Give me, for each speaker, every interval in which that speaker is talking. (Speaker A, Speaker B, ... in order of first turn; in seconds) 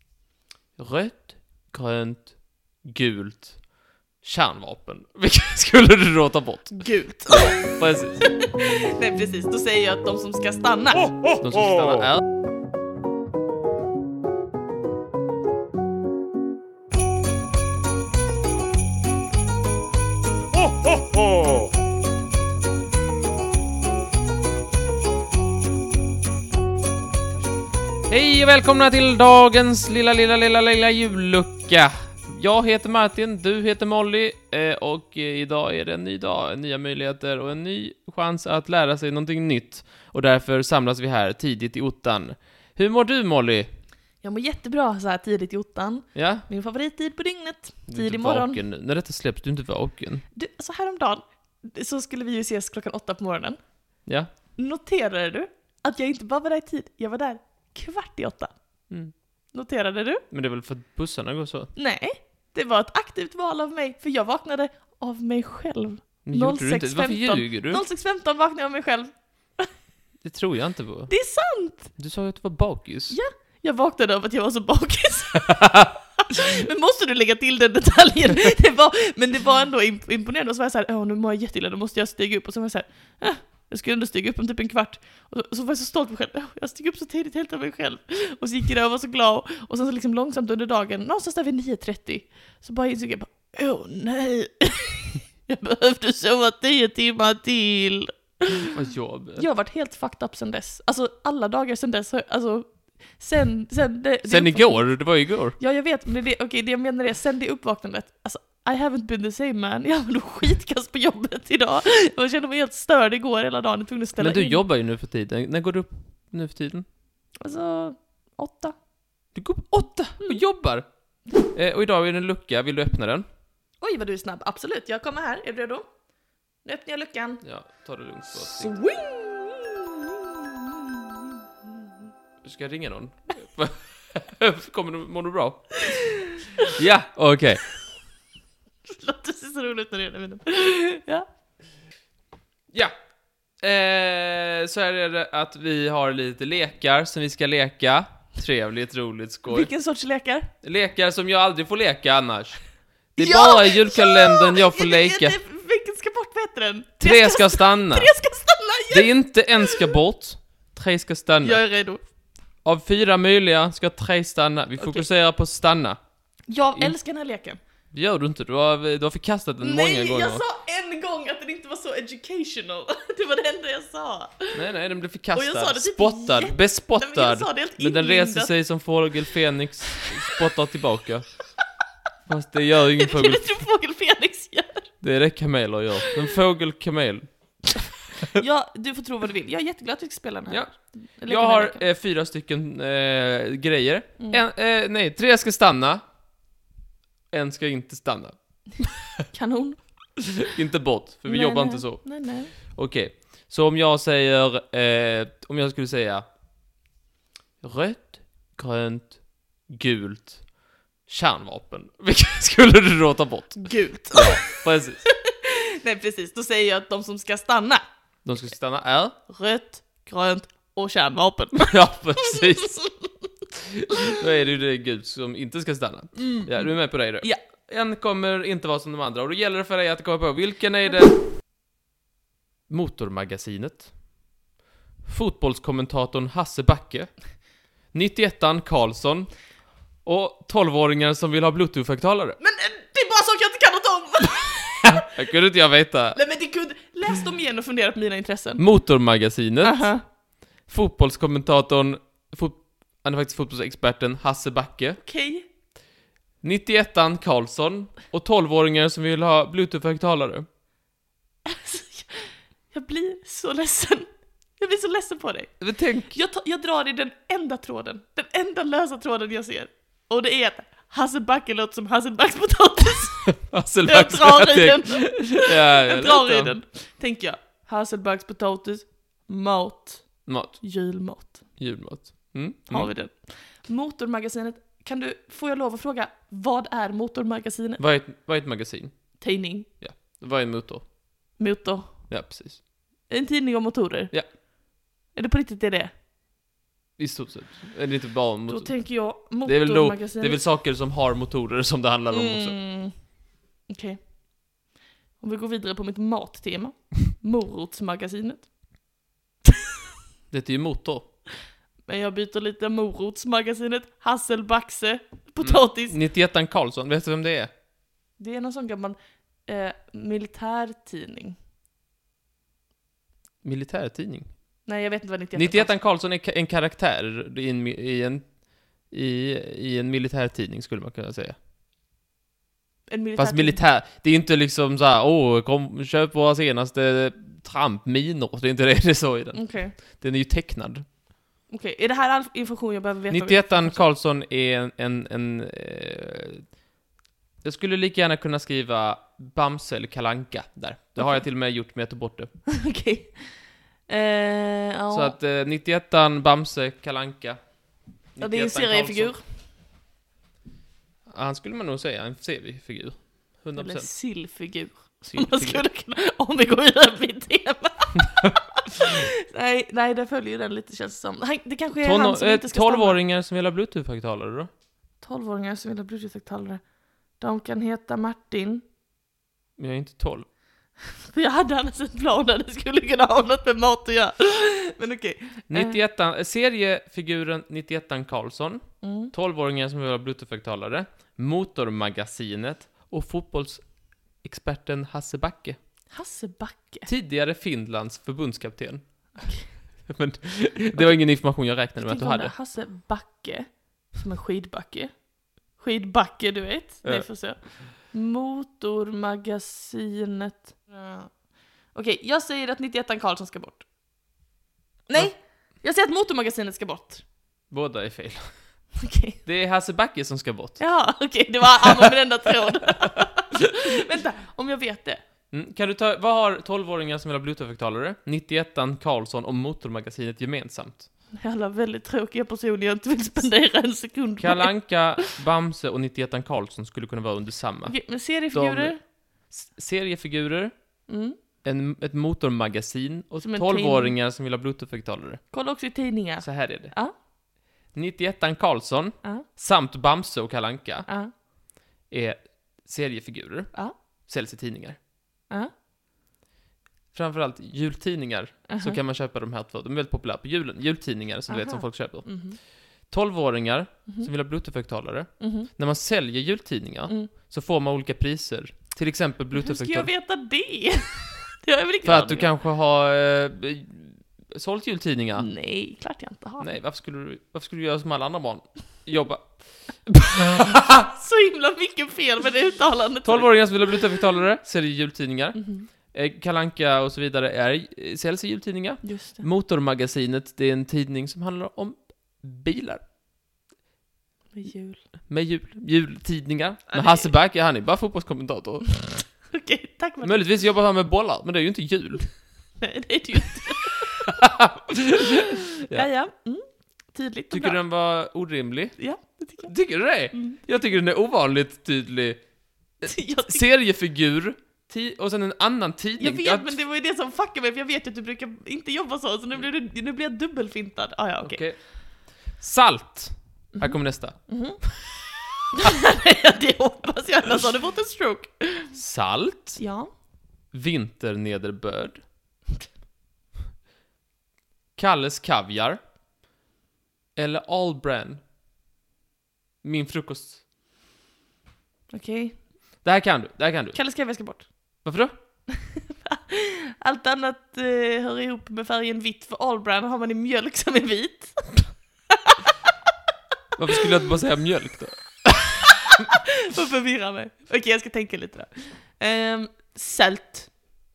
Speaker A: 0.8-8.2, 11.4-12.2, 28.1-43.7, 46.1-46.5, 47.9-50.2, 60.3-61.7, 66.2-67.8, 70.2-71.1, 72.0-73.2, 98.7-99.4, 104.2-105.6, 114.2-116.8, 119.3-120.8, 121.5-123.2, 127.4-128.7, 132.4-135.8, 136.7-137.7, 143.6-149.7, 150.6-155.4, 157.0-158.1, 158.9-161.6, 162.6-166.0, 167.9-170.4, 174.5-181.3, 182.3-183.4, 185.0-187.3, 190.5-196.0, 197.3-198.9, 200.5-206.2, 207.6-215.0, 218.2-219.1, 221.6-222.8, 223.8-231.2, 232.7-234.0, 235.0-237.4, 237.9-239.4, 240.0-242.4, 245.0-246.2, 248.6-250.0, 250.7-255.0, 256.4-260.4, 265.6-266.1, 273.4-276.5, 280.2-280.9, 281.6-282.9, 287.8-290.9, 292.1-292.6, 297.0-302.5, 310.3-311.1, 315.4-317.5, 323.4-324.3, 325.3-331.3, 333.1-340.8, 343.1-346.4, 347.4-352.3, 354.9-359.1, 361.1-363.9, 365.1-365.6, 371.8-374.5, 379.6-380.2, 385.5-395.6, 396.9-402.3, 406.8-407.1, 417.5-418.3, 419.2-420.6, 425.3-430.9, 434.2-440.5, 441.4-445.2, 446.2-446.7, 447.7-450.9, 451.9-453.5, 454.1-454.8, 456.9-462.2, 462.8-469.9, 471.8-475.3, 476.4-480.8, 483.0-492.8, 495.1-499.1, 500.0-502.2, 504.1-505.9, 507.3-508.8, 509.4-516.5, 521.2-524.3, 528.7-529.6, 530.5-532.0, 534.8-535.8, 537.1-538.2, 539.6-540.4, 542.8-544.0, 544.8-545.1, 553.6-555.6
Speaker B: 6.7-11.2, 44.2-48.6, 50.3-53.8, 54.5-58.5, 59.5-60.2, 61.7-69.7, 71.1-72.0, 73.1-98.7, 99.3-114.6, 117.4-118.7, 123.8-125.8, 126.6-127.4, 128.3-131.2, 135.9-136.2, 138.9-141.2, 149.5-150.5, 153.2-159.9, 161.4-162.0, 164.8-165.1, 166.5-167.6, 169.6-174.6, 175.3-178.7, 182.9-184.9, 188.3-191.8, 199.3-199.8, 201.3-202.5, 213.6-217.8, 219.3-223.3, 226.3-226.7, 242.4-245.1, 246.1-248.7, 249.6-250.0, 255.0-255.4, 261.4-264.1, 264.6-281.6, 282.7-287.8, 289.2-289.7, 291.4-292.3, 293.1-294.2, 295.1-295.9, 298.5-300.4, 302.1-303.1, 303.7-304.1, 305.2-308.5, 311.9-315.9, 318.2-321.4, 324.6-325.7, 332.9-333.6, 339.3-339.7, 341.5-343.8, 351.0-351.2, 352.5-353.3, 353.9-355.1, 358.2-359.2, 363.6-373.0, 375.0-376.6, 377.2-378.6, 381.1-385.8, 388.8-389.1, 395.9-396.9, 399.2-399.5, 400.7-413.7, 414.9-417.0, 418.8-419.2, 420.6-425.0, 431.2-435.1, 437.6-438.8, 440.9-441.2, 443.2-443.9, 445.3-446.9, 450.9-451.1, 458.5-458.8, 461.3-462.4, 465.2-465.5, 469.3-472.3, 475.1-476.5, 480.9-483.8, 485.3-485.7, 488.8-489.2, 494.3-494.8, 496.7-497.1, 499.3-500.3, 502.6-504.1, 505.6-507.6, 508.8-509.5, 510.1-510.4, 512.8-513.4, 516.0-521.4, 523.6-524.9, 525.5-528.7, 529.6-529.9, 541.9-542.4, 543.7-544.8, 545.5-552.4, 555.9-560.5